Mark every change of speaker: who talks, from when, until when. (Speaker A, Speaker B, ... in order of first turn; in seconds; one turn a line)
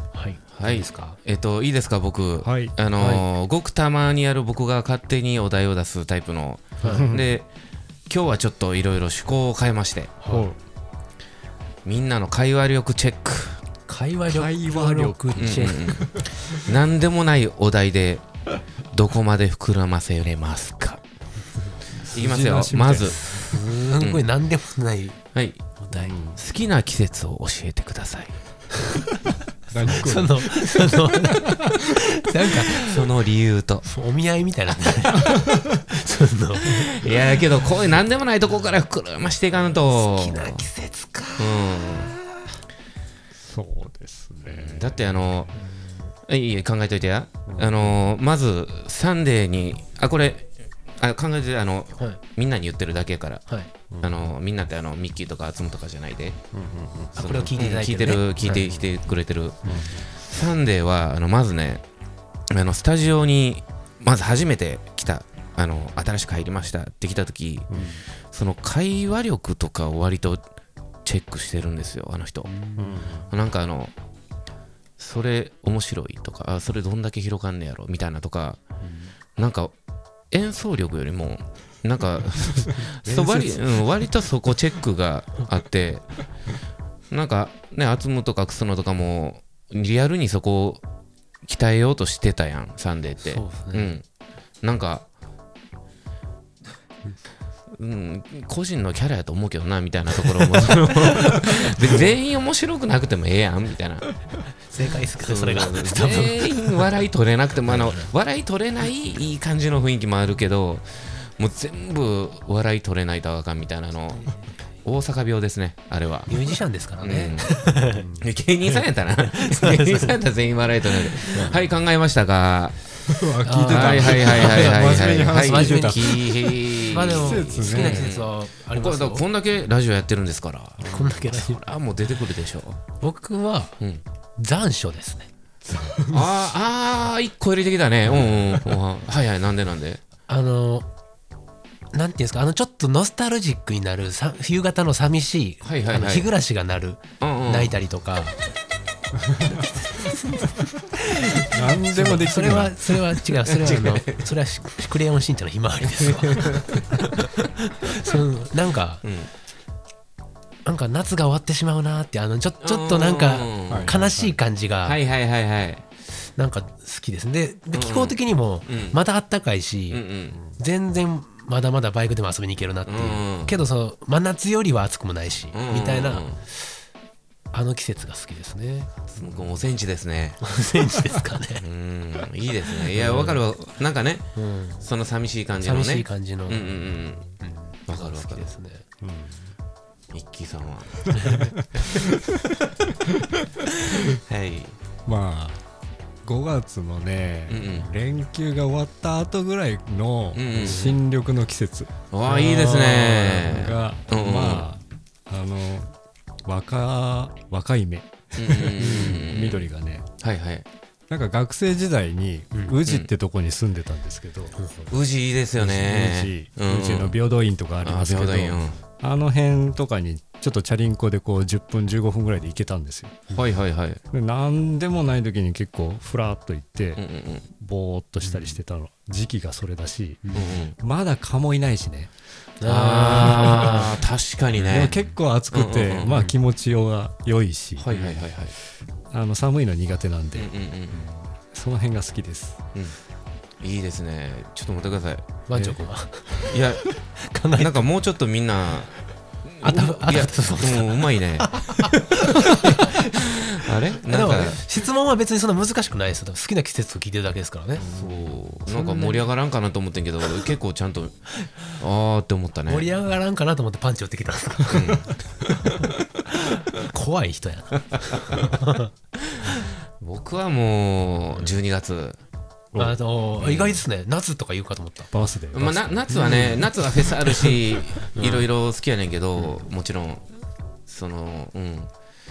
Speaker A: 0.1-1.2
Speaker B: 0.5-7.5
Speaker C: 2.4-2.8
Speaker A: 6.8-7.1
Speaker C: 6.8-7.3
Speaker B: 8.1-10.2
Speaker A: 10.2-10.5
Speaker C: 10.3-10.6
Speaker B: 11.8-13.6
Speaker A: 13.9-16.0
Speaker C: 14.3-16.3
Speaker B: 15.4-18.2
Speaker B: 18.9-21.0
Speaker C: 22.0-23.2
Speaker B: 22.1-24.2
Speaker A: 23.5-25.2
Speaker B: 25.4-25.8
Speaker A: 25.8-26.2
Speaker C: 25.9-26.4
Speaker B: 26.3-28.4
Speaker C: 29.7-31.8
Speaker A: 29.9-33.0
Speaker B: 32.7-33.9
Speaker A: 33.9-36.9
Speaker B: 36.7-40.7
Speaker A: 39.5-42.1
Speaker B: 41.4-42.1
Speaker C: 43.4-45.0
Speaker B: 44.5-45.5
Speaker B: 46.3-53.5
Speaker C: 47.5-48.0
Speaker B: 54.0-56.4
Speaker C: 56.5-57.3
Speaker A: 57.2-58.6
Speaker B: 57.2-61.8
Speaker C: 58.4-58.9
Speaker C: 59.6-60.1
Speaker B: 62.5-67.7
Speaker C: 67.7-68.0
Speaker A: 67.8-68.0
Speaker B: 68.3-70.4
Speaker B: 71.1-72.5
Speaker A: 72.5-73.0
Speaker C: 72.8-73.3
Speaker B: 73.3-73.9
Speaker B: 75.0-78.6
Speaker A: 78.8-79.1
Speaker B: 79.4-79.7
Speaker B: 80.3-86.1
Speaker C: 83.0-83.7
Speaker B: 87.1-90.8
Speaker B: 91.5-94.0
Speaker A: 93.2-94.0
Speaker B: 94.6-95.1
Speaker B: 97.8-104.1
Speaker A: 104.6-107.0
Speaker B: 105.2-114.3
Speaker A: 107.6-108.1
Speaker B: 114.8-116.3
Speaker A: 116.3-118.1
Speaker B: 117.0-122.8
Speaker A: 119.2-120.2
Speaker A: 121.1-121.6
Speaker C: 123.1-128.1
Speaker A: 123.4-126.2
Speaker B: 123.6-132.8
Speaker A: 126.9-129.3
Speaker A: 130.8-131.6
Speaker A: 133.0-133.8
Speaker A: 134.4-135.3
Speaker C: 135.8-136.2
Speaker B: 135.9-140.0
Speaker A: 140.3-140.9
Speaker A: 141.9-148.4
Speaker B: 145.6-146.3
Speaker B: 147.2-147.7
Speaker A: 149.4-159.1
Speaker C: 151.5-153.0
Speaker B: 153.5-154.2
Speaker B: 156.2-156.9
Speaker B: 159.0-159.3
Speaker A: 160.7-165.0
Speaker B: 162.6-163.9
Speaker C: 163.7-164.4
Speaker B: 164.8-165.8
Speaker A: 166.2-176.7
Speaker B: 167.7-169.0
Speaker B: 169.9-170.4
Speaker C: 170.3-170.6
Speaker B: 172.9-173.6
Speaker B: 175.5-176.4
Speaker A: 177.5-179.1
Speaker B: 179.1-180.4
Speaker A: 180.4-181.6
Speaker B: 181.6-184.3
Speaker A: 182.9-183.4
Speaker A: 184.4-184.8
Speaker B: 184.8-187.3
Speaker A: 185.6-186.8
Speaker A: 187.3-188.8
Speaker B: 187.9-188.5
Speaker C: 189.0-189.5
Speaker B: 190.1-191.1
Speaker A: 191.1-191.5
Speaker C: 192.0-192.4
Speaker B: 193.9-194.8
Speaker C: 195.1-195.6
Speaker C: 196.2-210.1
Speaker B: 197.5-197.9
Speaker B: 200.3-201.0
Speaker A: 200.6-200.9
Speaker B: 202.1-204.7
Speaker B: 208.4-210.7
Speaker A: 208.8-209.2
Speaker C: 211.1-214.6
Speaker A: 212.5-212.8
Speaker B: 212.8-213.1
Speaker A: 214.6-214.9
Speaker B: 214.9-217.2
Speaker C: 215.6-223.3
Speaker B: 217.8-218.8
Speaker B: 223.3-224.0
Speaker C: 224.1-227.0
Speaker B: 227.0-227.5
Speaker C: 227.6-232.1
Speaker B: 228.2-228.6
Speaker A: 230.2-230.6
Speaker B: 230.3-230.8
Speaker A: 232.6-234.0
Speaker B: 232.6-235.0
Speaker C: 233.1-233.9
Speaker C: 234.6-238.2
Speaker B: 235.5-236.3
Speaker B: 237.8-238.6
Speaker C: 239.1-240.5
Speaker B: 240.3-241.1
Speaker C: 241.4-242.6
Speaker B: 243.6-245.8
Speaker A: 245.5-246.6
Speaker B: 246.4-247.0
Speaker A: 247.2-247.8
Speaker B: 247.6-254.7
Speaker A: 249.6-257.9
Speaker B: 257.8-262.9
Speaker C: 257.8-258.4
Speaker A: 258.7-259.3
Speaker A: 262.7-268.9
Speaker B: 264.7-265.1
Speaker B: 270.0-272.2
Speaker A: 272.8-275.1
Speaker B: 273.4-273.8
Speaker C: 275.1-276.4
Speaker B: 275.5-280.3
Speaker A: 276.1-278.5
Speaker B: 280.9-281.9